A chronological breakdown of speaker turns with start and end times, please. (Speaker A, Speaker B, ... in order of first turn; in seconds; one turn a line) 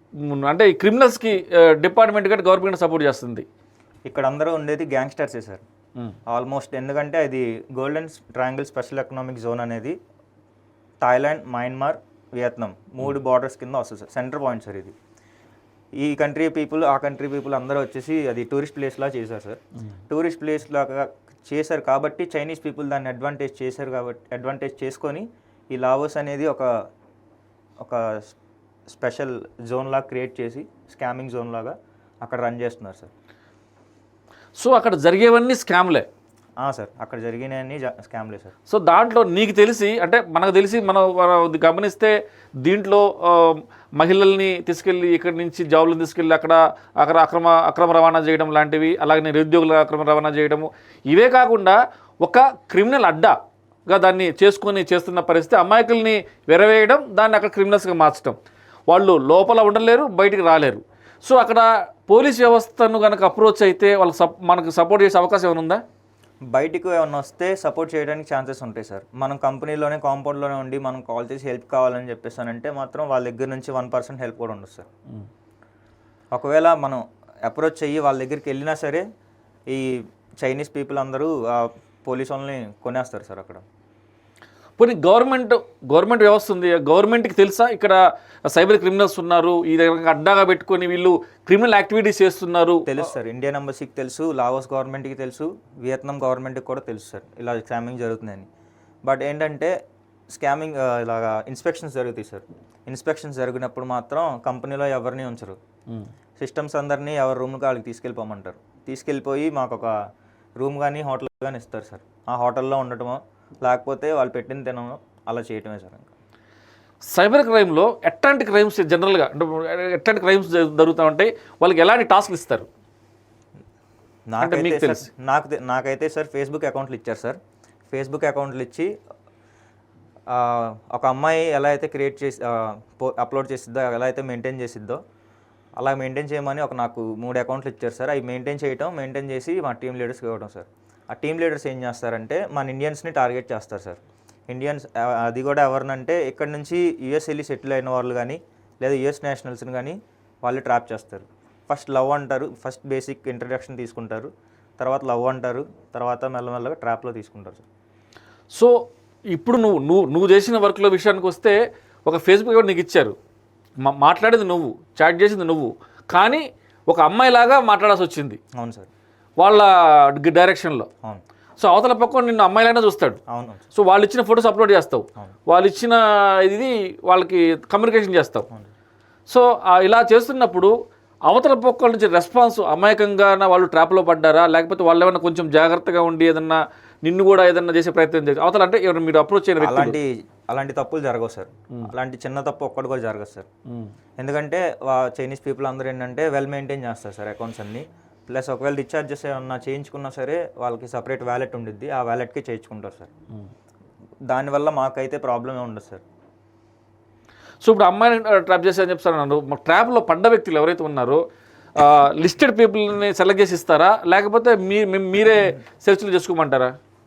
Speaker A: 0.2-3.4
Speaker B: 4.1-5.6
Speaker B: 6.3-10.0
Speaker B: 11.0-14.9
Speaker B: 16.0-26.7
Speaker B: 27.8-28.3
Speaker B: 28.9-33.1
Speaker A: 34.6-36.1
Speaker B: 36.6-38.5
Speaker A: 38.7-53.3
Speaker A: 53.9-58.4
Speaker A: 58.9-65.8
Speaker B: 66.5-74.9
Speaker B: 76.3-79.0
Speaker B: 79.7-83.6
Speaker A: 84.8-92.9
Speaker B: 92.8-98.5
Speaker B: 99.0-99.7
Speaker B: 100.3-105.6
Speaker B: 106.4-109.9
Speaker B: 110.6-116.1
Speaker A: 117.1-122.7
Speaker B: 124.3-127.4
Speaker A: 124.4-125.1
Speaker B: 127.9-128.9
Speaker B: 130.3-135.0
Speaker B: 135.8-157.6
Speaker A: 158.5-163.1
Speaker A: 163.8-168.4
Speaker B: 168.5-168.9
Speaker A: 169.4-170.9
Speaker A: 171.6-173.2
Speaker B: 173.3-173.7
Speaker A: 173.7-178.4
Speaker A: 179.3-180.7
Speaker A: 181.3-190.0
Speaker B: 189.6-193.5
Speaker B: 194.2-203.1
Speaker B: 204.3-206.0
Speaker A: 207.6-211.2
Speaker A: 211.8-216.7